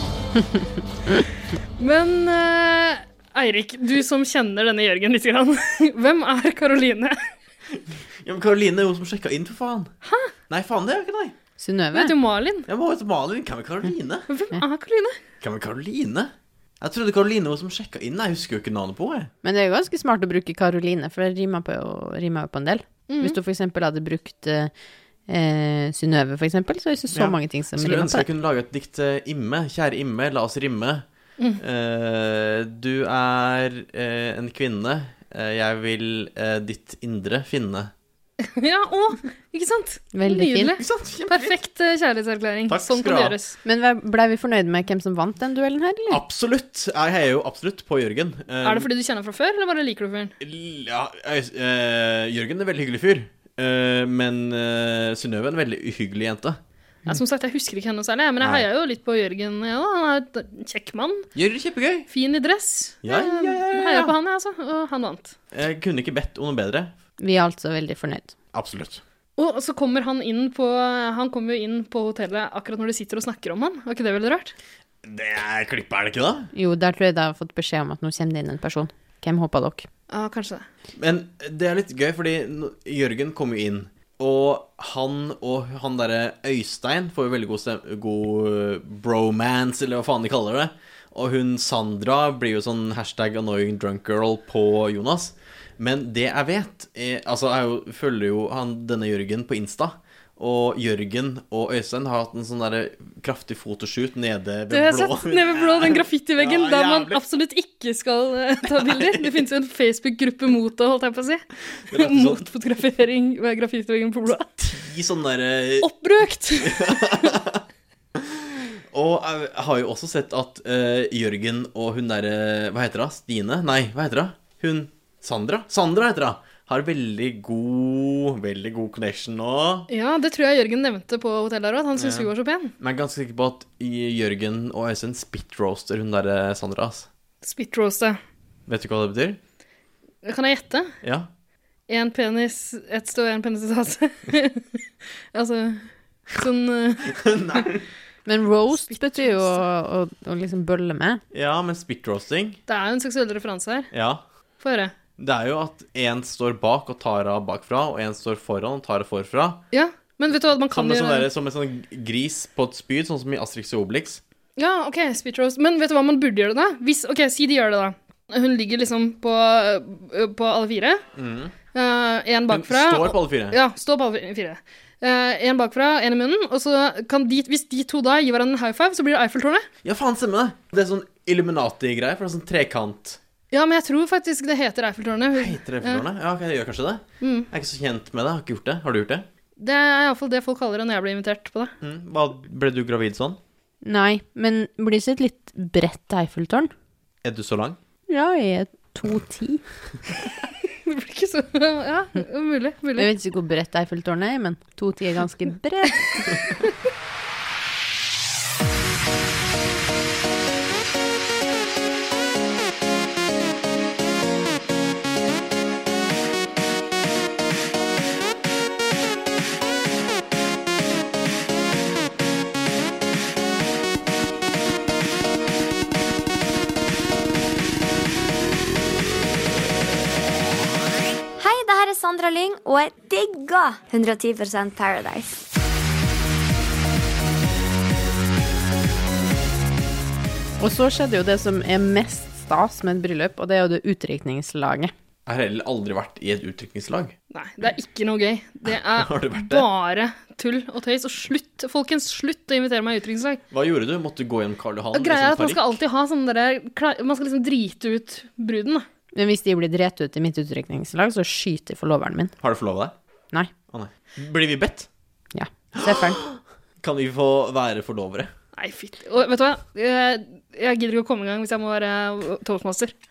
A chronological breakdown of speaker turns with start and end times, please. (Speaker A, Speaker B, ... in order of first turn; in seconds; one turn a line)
Speaker A: 1.8-7.2
Speaker B: 7.7-9.9
Speaker A: 10.0-10.3
Speaker B: 10.5-11.3
Speaker C: 11.6-12.1
Speaker A: 11.9-12.7
Speaker B: 12.7-14.2
Speaker A: 14.3-15.2
Speaker B: 15.4-19.3
Speaker C: 19.4-24.7
Speaker A: 23.1-23.4
Speaker C: 25.3-28.3
Speaker B: 27.1-31.0
Speaker B: 31.6-37.9
Speaker A: 38.4-43.5
Speaker C: 40.1-40.8
Speaker B: 40.8-41.5
Speaker B: 42.7-43.4
Speaker C: 43.6-46.2
Speaker B: 46.1-48.9
Speaker A: 48.6-50.3
Speaker B: 50.4-56.6
Speaker A: 57.1-61.3
Speaker B: 58.4-58.6
Speaker B: 61.3-62.1
Speaker A: 62.1-65.3
Speaker B: 63.0-64.1
Speaker B: 65.5-66.9
Speaker C: 67.2-68.3
Speaker B: 68.5-69.0
Speaker A: 69.4-74.5
Speaker B: 75.0-76.5
Speaker C: 76.5-79.9
Speaker A: 80.1-80.7
Speaker B: 81.0-107.2
Speaker A: 104.7-114.5
Speaker B: 108.7-109.4
Speaker B: 111.9-112.5
Speaker B: 114.6-115.9
Speaker A: 115.8-117.3
Speaker B: 116.6-117.6
Speaker B: 118.2-129.9
Speaker A: 129.9-132.7
Speaker B: 131.9-137.1
Speaker A: 137.4-138.2
Speaker B: 138.7-139.4
Speaker A: 140.2-140.9
Speaker B: 141.0-141.3
Speaker A: 141.9-144.8
Speaker A: 145.3-147.7
Speaker B: 147.2-147.9
Speaker C: 148.2-151.2
Speaker A: 148.9-149.6
Speaker B: 151.3-152.6
Speaker A: 152.7-153.9
Speaker B: 153.9-154.2
Speaker A: 154.6-154.9
Speaker B: 155.2-159.6
Speaker A: 159.7-161.3
Speaker B: 160.7-164.2
Speaker A: 164.6-171.0
Speaker B: 171.2-171.5
Speaker A: 171.7-179.7
Speaker B: 172.5-173.6
Speaker B: 179.8-183.2
Speaker A: 183.5-186.0
Speaker B: 185.3-189.3
Speaker A: 187.2-187.5
Speaker A: 189.6-191.7
Speaker B: 191.8-193.4
Speaker C: 193.8-196.7
Speaker B: 197.2-197.8
Speaker C: 198.1-199.6
Speaker A: 200.8-203.1
Speaker C: 203.0-206.3
Speaker D: 231.4-235.4
Speaker C: 240.6-244.9
Speaker B: 245.2-247.2
Speaker A: 247.3-253.4
Speaker B: 248.7-249.7
Speaker B: 253.5-255.8
Speaker A: 254.9-258.8
Speaker C: 259.1-262.3
Speaker B: 262.4-262.9
Speaker B: 263.7-264.9
Speaker C: 265.3-266.2
Speaker B: 265.7-268.3
Speaker A: 268.6-272.9